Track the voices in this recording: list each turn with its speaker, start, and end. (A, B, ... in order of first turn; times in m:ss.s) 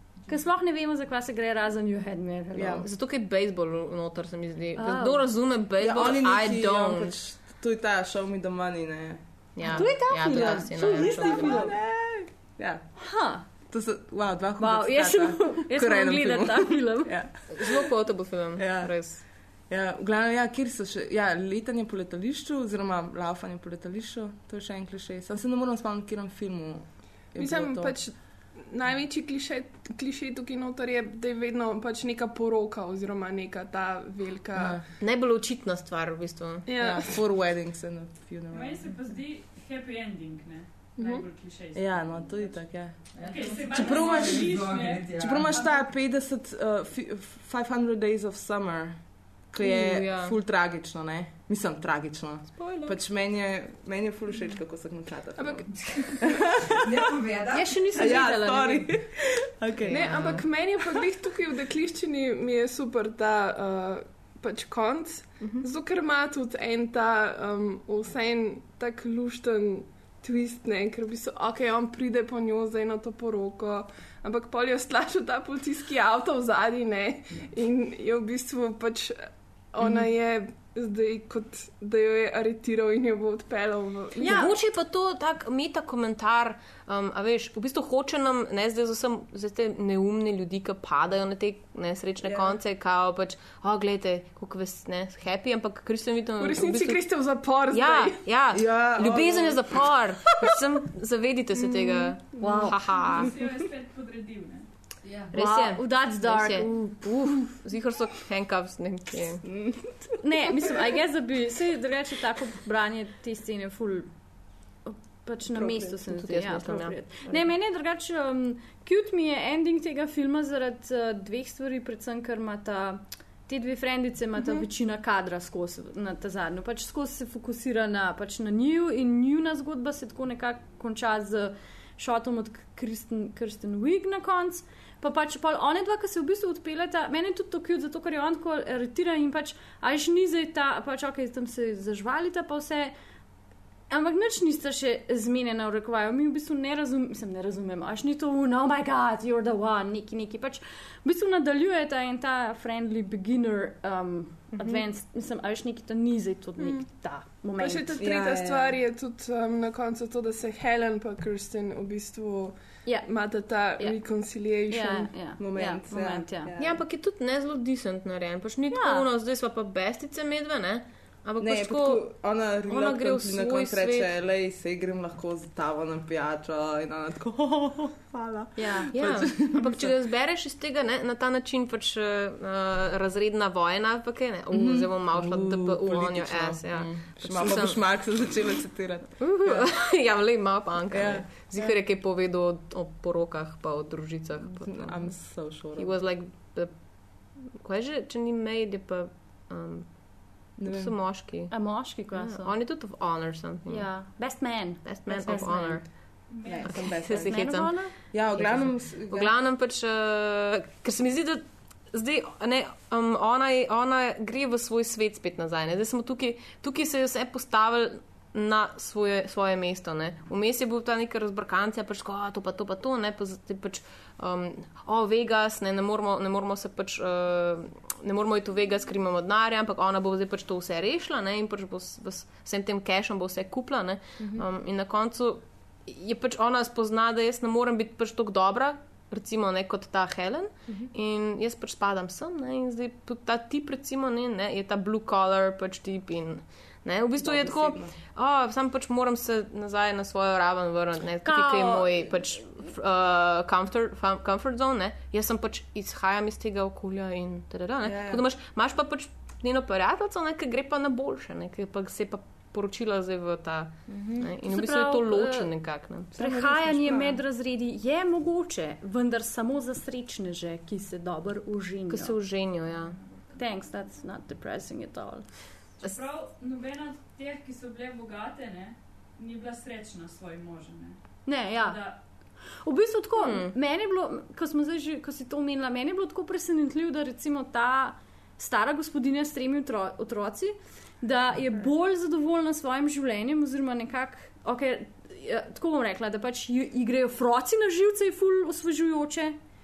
0:00.3-0:02.9 A
0:02.5-0:02.9 B
0:02.8-0:07.2 C
0:04.8-0:05.2 A
0:05.8-0:12.9 B
0:09.6-0:11.7 C
0:09.7-0:11.7 A
0:13.0-0:13.5 A
0:13.5-0:17.8 B
0:14.6-0:17.1 A
0:17.5-0:19.2 C
0:18.6-0:28.0 B
0:27.3-0:34.8 D
0:34.6-0:34.8 B
0:35.0-0:36.7 C
0:36.6-0:37.2 D
0:36.8-0:38.9 B
0:38.5-0:42.6 E
0:41.0-0:41.2 D
0:41.7-0:57.0 B
0:43.1-0:45.7 F
0:43.2-0:45.9 E
0:49.6-0:50.4 C
0:52.6-0:53.0 C
0:55.4-0:56.3 D
0:55.7-0:58.1 F
0:57.5-0:58.9 A
0:57.9-1:00.4 B
0:59.8-1:00.4 C
0:59.9-1:24.5 D
1:24.2-1:24.6 A
1:24.2-1:37.1 C
1:32.2-1:32.6 B
1:36.4-1:38.2 D
1:37.7-1:43.3 C
1:38.5-1:39.8 B
1:41.5-1:42.7 D
1:42.4-1:42.8 A
1:42.8-1:44.7 E
1:45.0-1:45.3 F
1:45.3-1:47.4 A
1:45.3-1:49.4 C
1:49.4-1:50.1 B
1:50.2-2:22.9 A
1:55.9-1:57.4 C
2:23.9-2:38.0 A
2:36.6-2:36.8 D
2:37.6-2:45.1 D
2:38.0-2:38.8 B
2:42.8-2:43.1 A
2:43.7-2:44.0 A
2:44.7-2:46.5 A
2:45.4-2:46.8 B
2:46.6-2:52.0 C
2:48.7-2:49.1 A
2:51.4-2:59.9 B
2:52.7-2:54.1 C
2:58.6-2:58.9 A
2:58.9-3:08.1 C
3:04.5-3:09.8 B
3:09.2-3:24.0 C
3:10.9-3:11.7 B
3:14.4-3:15.9 B
3:20.6-3:20.9 B
3:21.5-3:22.5 A
3:23.7-3:25.8 A
3:24.8-4:26.1 C
3:26.3-3:27.1 E
3:26.4-3:29.3 B
3:27.2-3:27.9 A
3:54.2-3:54.4 B
4:07.2-4:07.9 B
4:11.2-4:12.2 A
4:17.8-4:18.2 B
4:23.9-4:24.3 B
4:24.4-4:25.5 A
4:26.1-4:32.2 A
4:26.2-4:27.2 B
4:31.9-4:33.0 C
4:33.3-4:35.4 A
4:35.8-4:42.0 E
4:41.2-4:59.4 A
4:43.2-4:43.5 C